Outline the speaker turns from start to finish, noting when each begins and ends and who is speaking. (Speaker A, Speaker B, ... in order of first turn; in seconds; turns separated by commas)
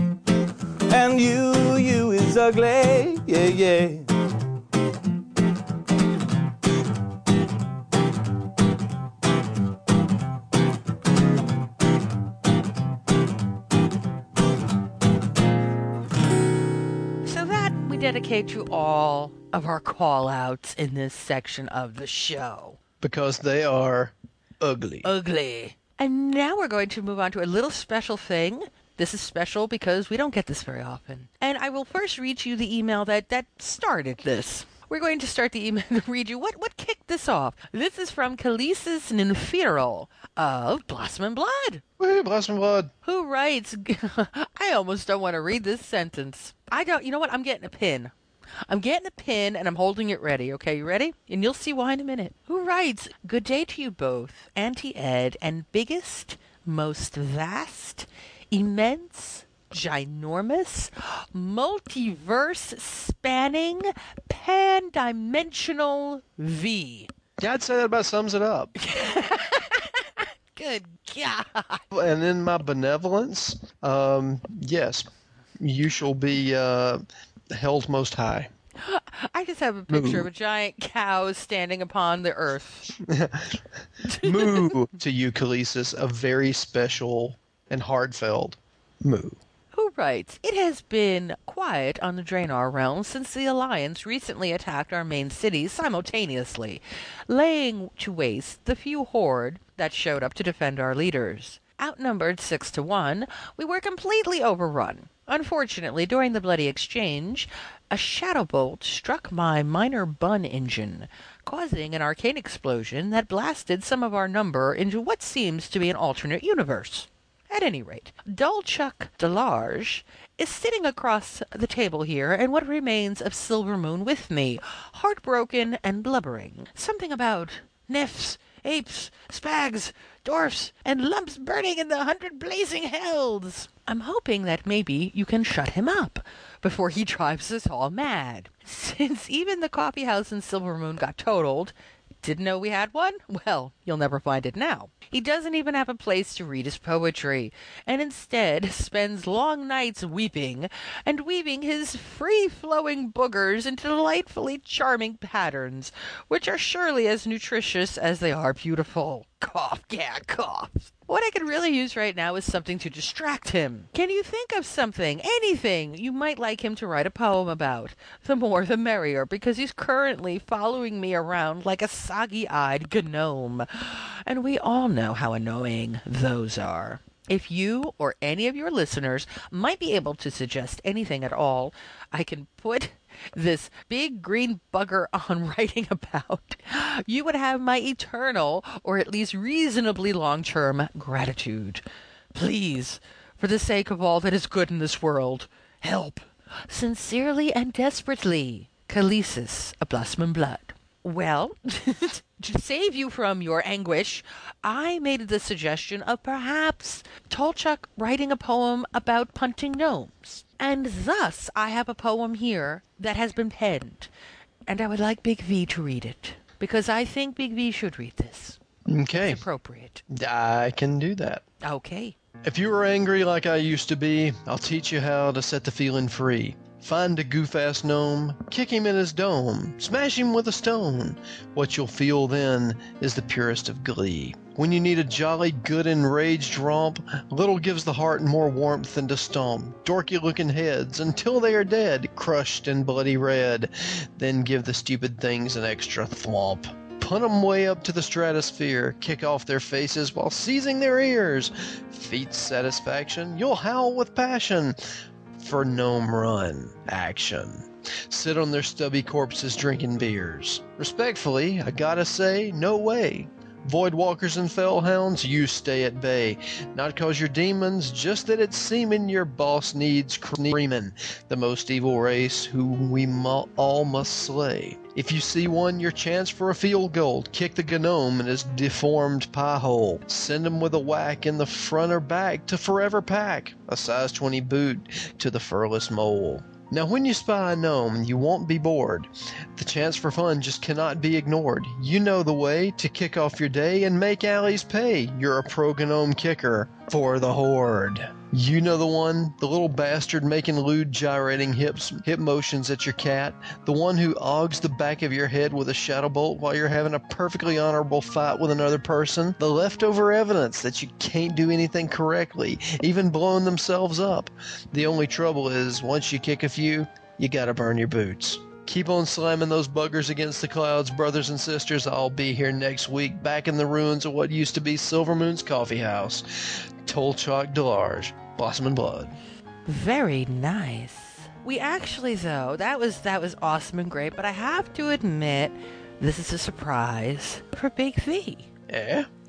Speaker A: 0.9-4.0, Speaker B: 17.2-22.8, Speaker C: 23.0-25.1, Speaker B: 25.0-41.8, Speaker C: 42.0-42.9, Speaker B: 43.0-48.1, Speaker B: 48.7-67.1, Speaker C: 67.4-68.7, Speaker B: 68.8-71.8, Speaker C: 71.9-75.1, Speaker C: 75.6-78.5, Speaker B: 78.8-82.9, Speaker C: 79.9-80.3, Speaker C: 83.0-83.6, Speaker B: 84.0-84.8, Speaker C: 84.2-89.4, Speaker B: 89.7-191.8, Speaker B: 192.3-214.1, Speaker B: 214.7-218.6, Speaker C: 218.9-219.4, Speaker B: 219.1-220.0, Speaker C: 220.1-221.4, Speaker B: 221.6-222.2, Speaker C: 222.4-254.8, Speaker C: 255.4-329.1, Speaker B: 329.7-338.5, Speaker C: 338.7-339.1